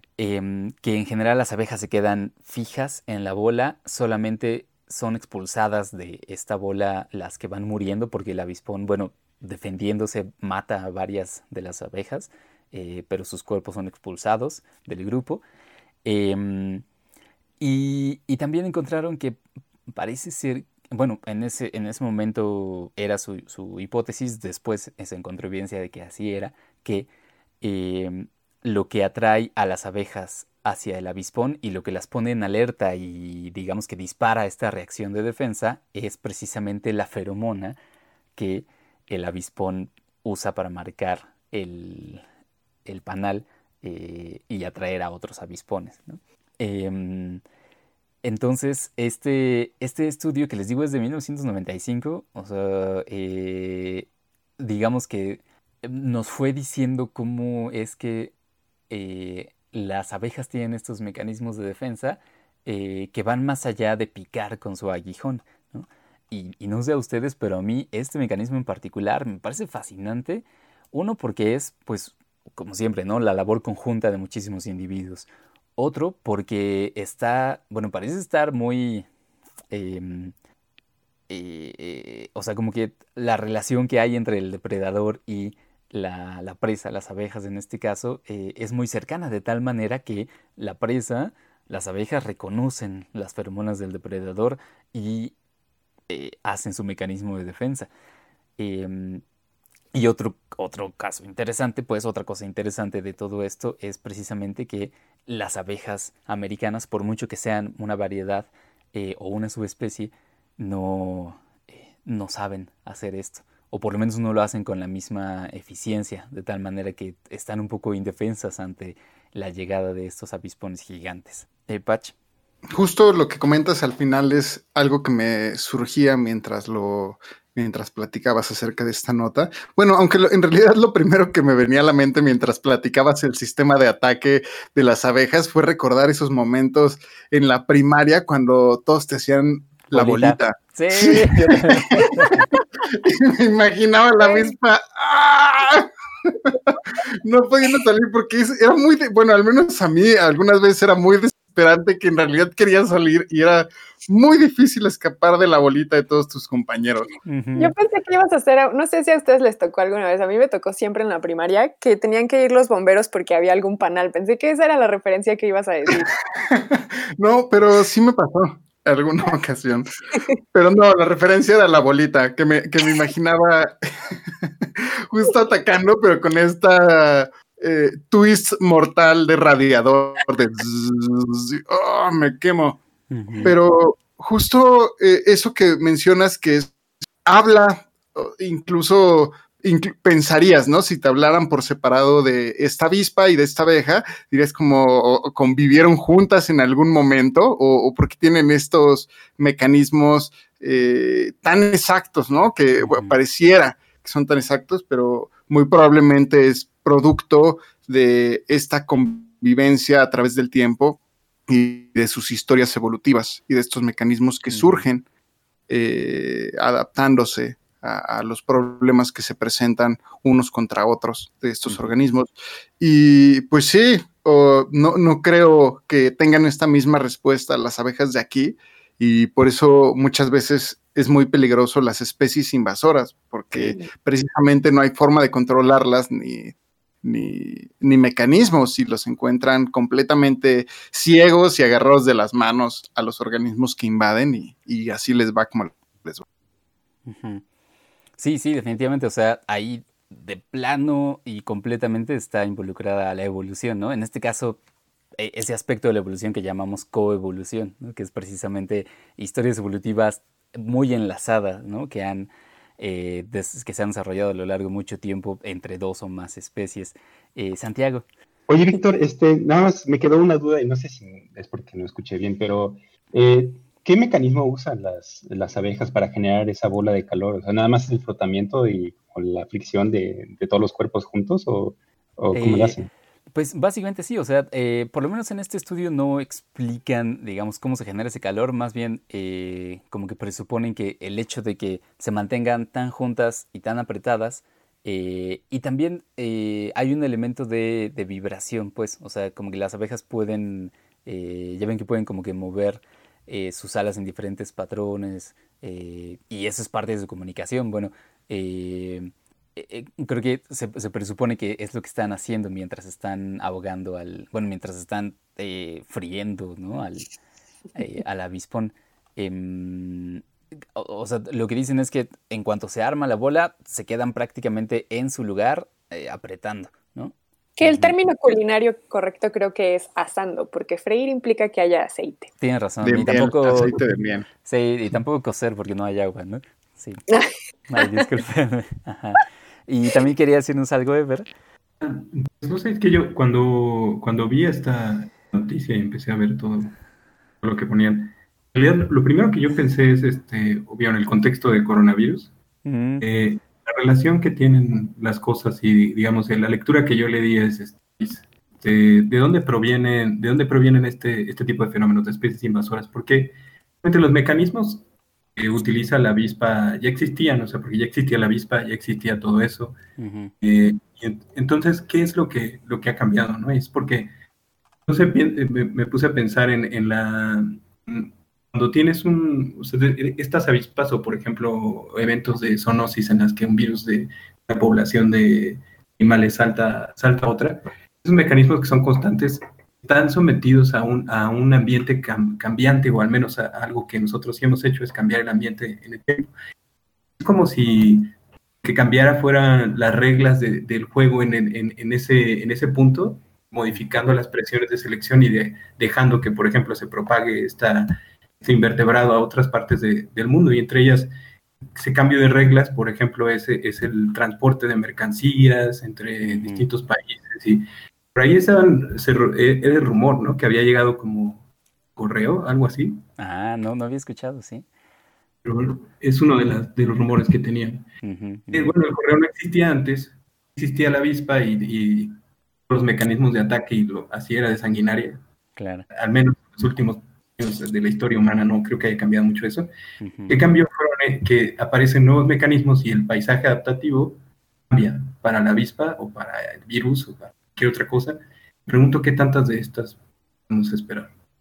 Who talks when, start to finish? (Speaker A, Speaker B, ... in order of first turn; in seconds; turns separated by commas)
Speaker A: 0.2-15.4, Speaker A: 16.0-16.8, Speaker A: 17.6-19.4, Speaker A: 19.9-27.1, Speaker A: 27.6-37.8, Speaker A: 38.4-42.2, Speaker A: 42.9-47.4, Speaker A: 48.2-54.1, Speaker A: 54.6-58.3, Speaker A: 58.9-79.1, Speaker A: 79.7-80.3, Speaker A: 81.3-95.3, Speaker A: 96.1-97.9, Speaker A: 98.6-99.2, Speaker A: 99.9-122.1, Speaker B: 122.7-157.1, Speaker A: 139.9-142.4, Speaker C: 144.2-144.5, Speaker A: 157.2-157.7, Speaker C: 157.6-166.1, Speaker B: 166.5-169.9, Speaker B: 170.5-182.8, Speaker A: 183.1-183.5, Speaker B: 183.4-186.7, Speaker B: 187.2-215.0, Speaker A: 202.8-203.2, Speaker A: 214.5-214.8, Speaker B: 215.7-246.2, Speaker A: 247.1-247.4, Speaker A: 248.2-254.6, Speaker A: 255.2-268.0, Speaker D: 268.5-282.9, Speaker A: 282.3-282.8, Speaker A: 283.3-317.1, Speaker A: 317.8-320.2, Speaker A: 320.8-327.9, Speaker C: 327.6-332.3, Speaker A: 332.4-333.8, Speaker B: 332.8-334.2, Speaker A: 334.4-337.0, Speaker C: 337.1-338.1, Speaker A: 337.7-341.3, Speaker E: 341.8-346.7, Speaker E: 347.4-352.3, Speaker A: 352.6-353.1, Speaker E: 353.0-364.8, Speaker E: 365.4-369.8, Speaker A: 370.0-370.3, Speaker E: 370.4-374.1, Speaker E: 374.9-396.3, Speaker E: 397.2-398.1, Speaker E: 398.6-411.1, Speaker E: 411.8-417.6, Speaker A: 416.2-416.6, Speaker E: 418.1-421.4, Speaker E: 421.9-423.0, Speaker A: 423.2-424.6, Speaker E: 425.4-427.9, Speaker A: 428.0-428.7, Speaker E: 428.5-432.1, Speaker E: 432.7-435.2, Speaker A: 435.6-435.9, Speaker E: 435.9-439.7, Speaker A: 440.0-440.4, Speaker E: 440.3-444.2, Speaker E: 444.7-450.0, Speaker E: 450.5-451.1